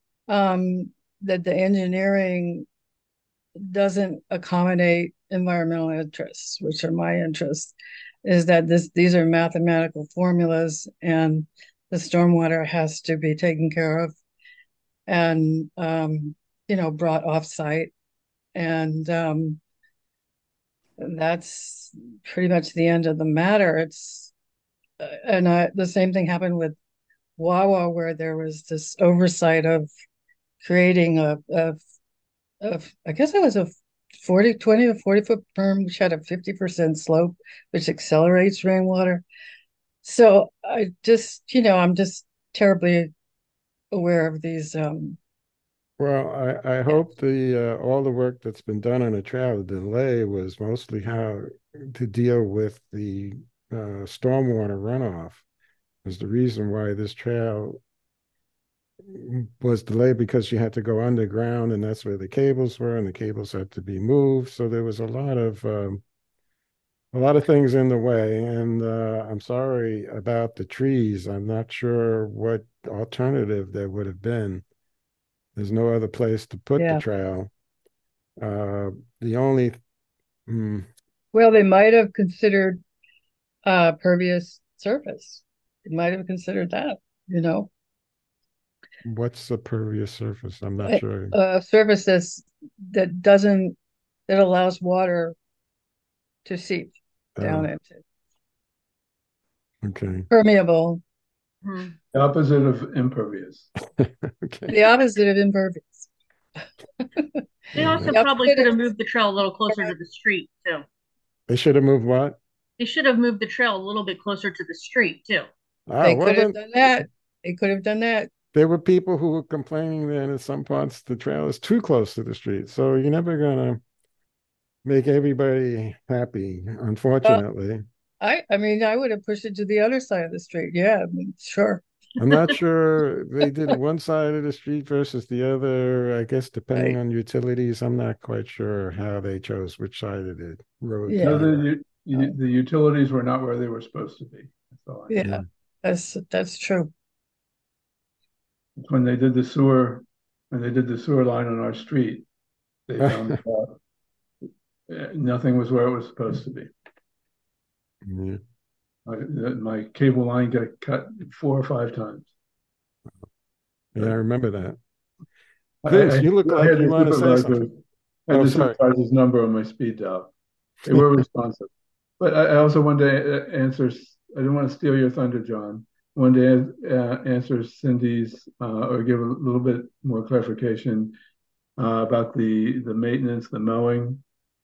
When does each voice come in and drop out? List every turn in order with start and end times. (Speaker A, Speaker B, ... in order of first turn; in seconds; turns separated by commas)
Speaker A: 0.3-2.7, Speaker A: 3.6-14.1, Speaker A: 15.1-17.9, Speaker A: 18.6-19.6, Speaker A: 21.0-24.3, Speaker A: 25.0-26.8, Speaker A: 27.4-29.9, Speaker A: 30.6-31.8, Speaker A: 32.6-39.2, Speaker A: 40.0-43.1, Speaker A: 43.9-45.2, Speaker B: 46.0-55.4, Speaker B: 56.0-57.8, Speaker B: 59.0-66.0, Speaker B: 67.1-74.6, Speaker B: 75.6-77.5, Speaker A: 76.8-77.0, Speaker B: 78.4-79.8, Speaker B: 80.5-80.9, Speaker A: 81.3-82.8, Speaker A: 83.7-87.7, Speaker B: 89.0-91.3, Speaker A: 90.8-93.8, Speaker A: 94.3-95.4, Speaker A: 96.5-98.0, Speaker B: 97.4-97.7, Speaker B: 99.8-100.3, Speaker A: 100.3-101.0, Speaker C: 101.6-101.9, Speaker D: 102.1-103.7, Speaker B: 104.0-104.8, Speaker A: 104.7-106.1, Speaker C: 107.8-110.8, Speaker B: 107.8-108.1, Speaker A: 108.0-108.8, Speaker A: 109.7-109.9, Speaker B: 111.5-112.4, Speaker C: 112.8-115.5, Speaker B: 115.9-116.6, Speaker A: 116.0-118.3, Speaker B: 118.5-123.8, Speaker B: 124.8-127.8, Speaker A: 128.2-132.4, Speaker B: 132.2-142.3, Speaker A: 141.1-141.4, Speaker D: 141.2-145.2, Speaker A: 145.1-146.9, Speaker D: 148.8-152.3, Speaker D: 152.9-153.8, Speaker D: 154.9-156.7, Speaker B: 158.1-158.4, Speaker D: 159.1-162.3, Speaker B: 163.9-164.8, Speaker D: 165.8-170.3, Speaker B: 165.9-167.7, Speaker B: 168.3-168.8, Speaker D: 170.8-181.2, Speaker D: 181.8-184.2